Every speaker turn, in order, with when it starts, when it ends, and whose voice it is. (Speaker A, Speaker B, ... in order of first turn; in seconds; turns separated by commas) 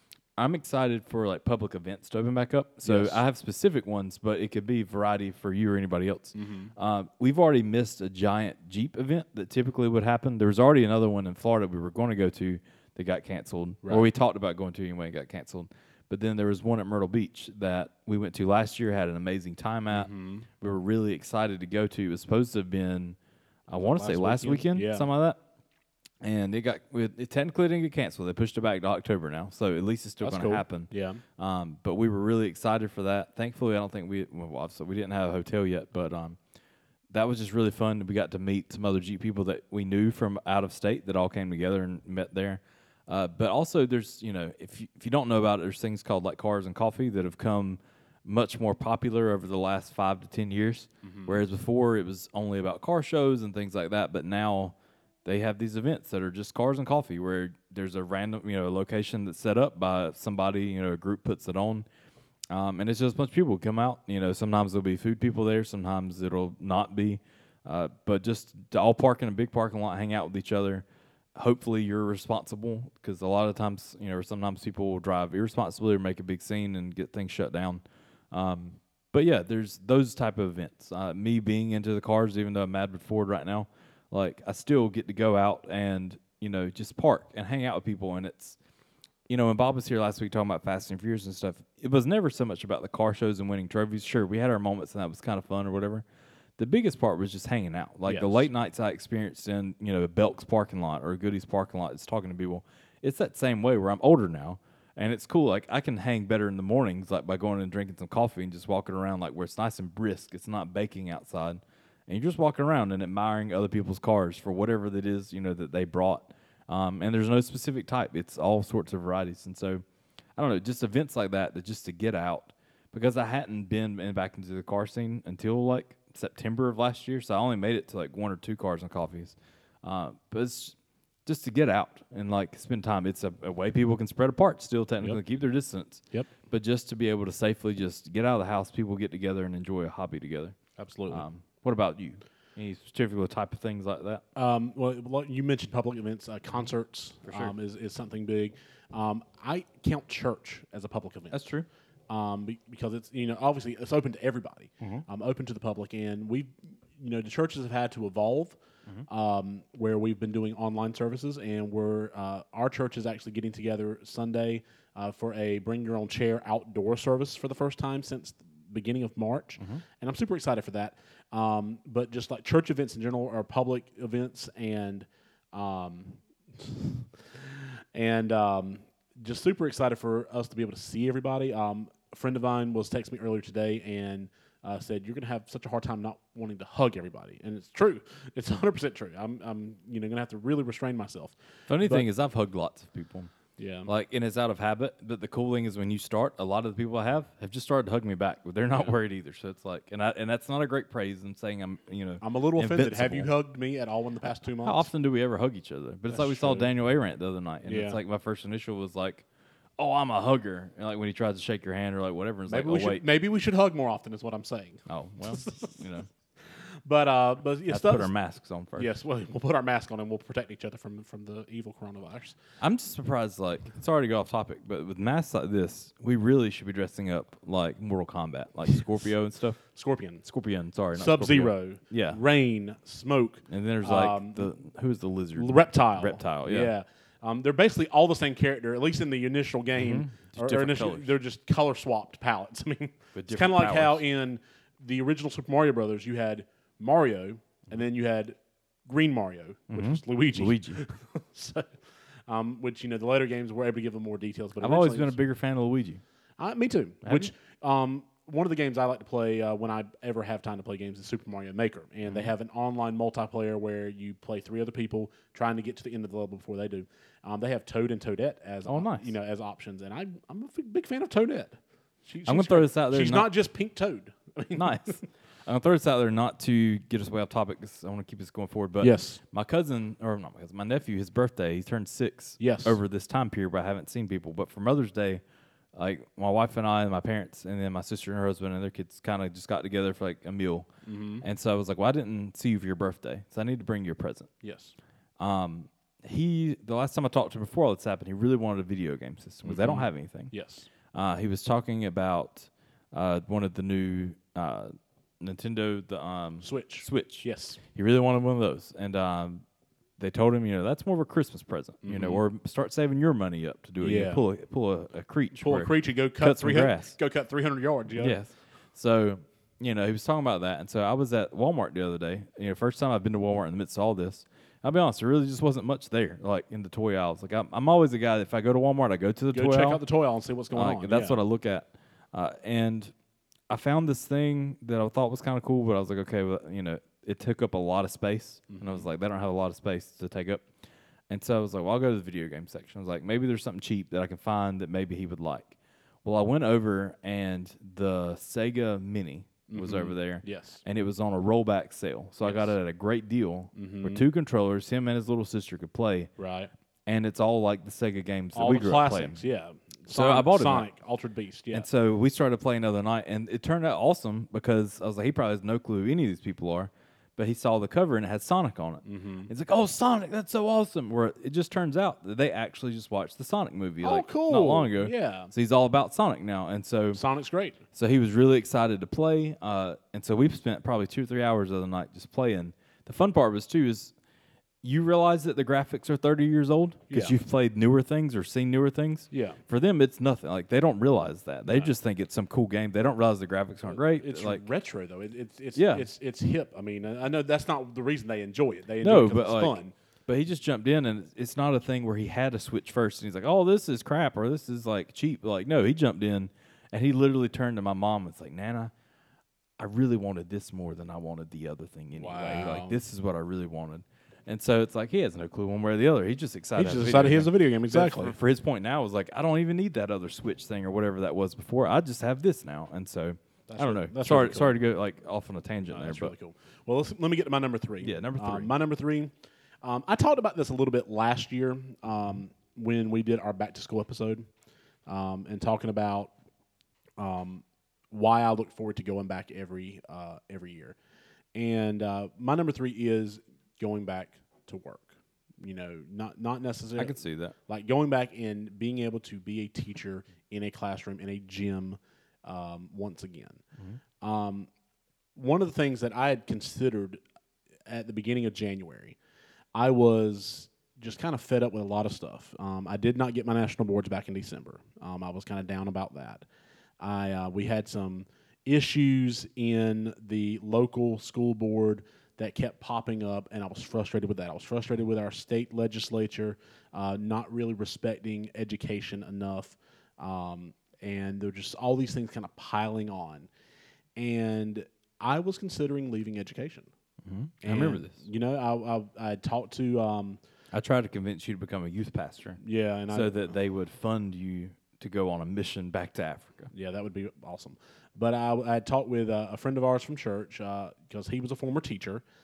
Speaker A: 0.4-23.2, Speaker B: 2.8-3.2, Speaker B: 6.3-6.7, Speaker B: 19.9-20.5, Speaker A: 23.7-25.4, Speaker B: 23.7-25.1, Speaker A: 26.2-36.4, Speaker B: 30.2-31.2, Speaker A: 37.1-61.9, Speaker B: 51.0-51.4, Speaker A: 62.5-88.6, Speaker A: 89.3-96.0, Speaker A: 96.6-119.8, Speaker B: 98.0-98.5, Speaker A: 120.4-140.6, Speaker B: 140.8-141.2, Speaker A: 141.1-144.2, Speaker B: 144.4-151.4, Speaker A: 147.3-147.5, Speaker A: 151.3-151.7, Speaker B: 152.1-192.1, Speaker A: 191.7-193.3, Speaker B: 193.6-193.9, Speaker A: 193.8-203.3, Speaker B: 202.2-204.9, Speaker A: 204.6-209.2, Speaker B: 206.1-206.7, Speaker B: 207.6-208.0, Speaker A: 209.8-213.0, Speaker B: 212.5-215.8, Speaker A: 214.9-216.1, Speaker B: 216.5-218.1, Speaker A: 217.7-218.9, Speaker B: 218.8-222.3, Speaker A: 222.6-229.6, Speaker B: 229.7-230.2, Speaker A: 230.2-232.2, Speaker B: 230.9-234.5, Speaker A: 233.5-236.7, Speaker B: 235.3-251.7, Speaker A: 239.8-241.1, Speaker A: 243.1-244.0, Speaker A: 249.7-250.8, Speaker B: 252.3-255.2, Speaker A: 254.6-256.0, Speaker B: 256.4-275.0, Speaker A: 257.0-257.3, Speaker A: 262.1-262.3, Speaker A: 268.6-269.1, Speaker A: 272.2-273.3, Speaker A: 274.5-285.2, Speaker B: 278.8-279.2, Speaker B: 282.4-282.8, Speaker A: 285.8-290.7, Speaker B: 290.9-291.2, Speaker A: 291.2-294.3, Speaker B: 294.4-294.7, Speaker A: 295.2-300.3, Speaker B: 299.4-300.7, Speaker A: 300.9-309.4, Speaker B: 306.4-307.6, Speaker A: 310.0-317.0, Speaker B: 311.8-312.2, Speaker B: 313.8-314.2, Speaker B: 315.3-318.2, Speaker A: 318.0-329.8, Speaker B: 329.3-331.2, Speaker A: 330.5-332.9, Speaker A: 333.5-340.5, Speaker B: 338.5-338.9, Speaker A: 341.1-356.1, Speaker B: 349.5-350.6, Speaker B: 352.2-352.5, Speaker B: 353.5-354.0, Speaker B: 356.2-356.5, Speaker A: 356.9-359.2, Speaker B: 358.3-361.7, Speaker A: 359.9-360.7, Speaker A: 361.5-377.0, Speaker B: 368.9-369.3, Speaker B: 373.8-375.3, Speaker B: 376.9-377.6, Speaker A: 377.7-383.9, Speaker A: 384.6-394.4, Speaker B: 386.9-387.1, Speaker B: 389.1-389.4, Speaker B: 393.7-399.7, Speaker A: 395.5-395.9, Speaker A: 398.8-408.7, Speaker A: 409.6-426.1, Speaker B: 412.0-412.8, Speaker B: 416.5-418.1, Speaker B: 423.5-424.6, Speaker B: 425.7-429.1, Speaker A: 427.8-428.5, Speaker B: 429.6-434.3, Speaker B: 434.9-436.1, Speaker B: 437.0-440.8, Speaker B: 441.4-453.4, Speaker A: 446.8-447.4, Speaker B: 454.0-454.5, Speaker B: 455.1-457.0, Speaker B: 457.7-459.0, Speaker B: 459.5-466.2, Speaker B: 466.8-483.3, Speaker B: 484.0-486.7, Speaker A: 487.0-488.0, Speaker B: 487.4-490.2, Speaker A: 490.5-496.5, Speaker B: 492.4-493.3, Speaker B: 496.5-502.0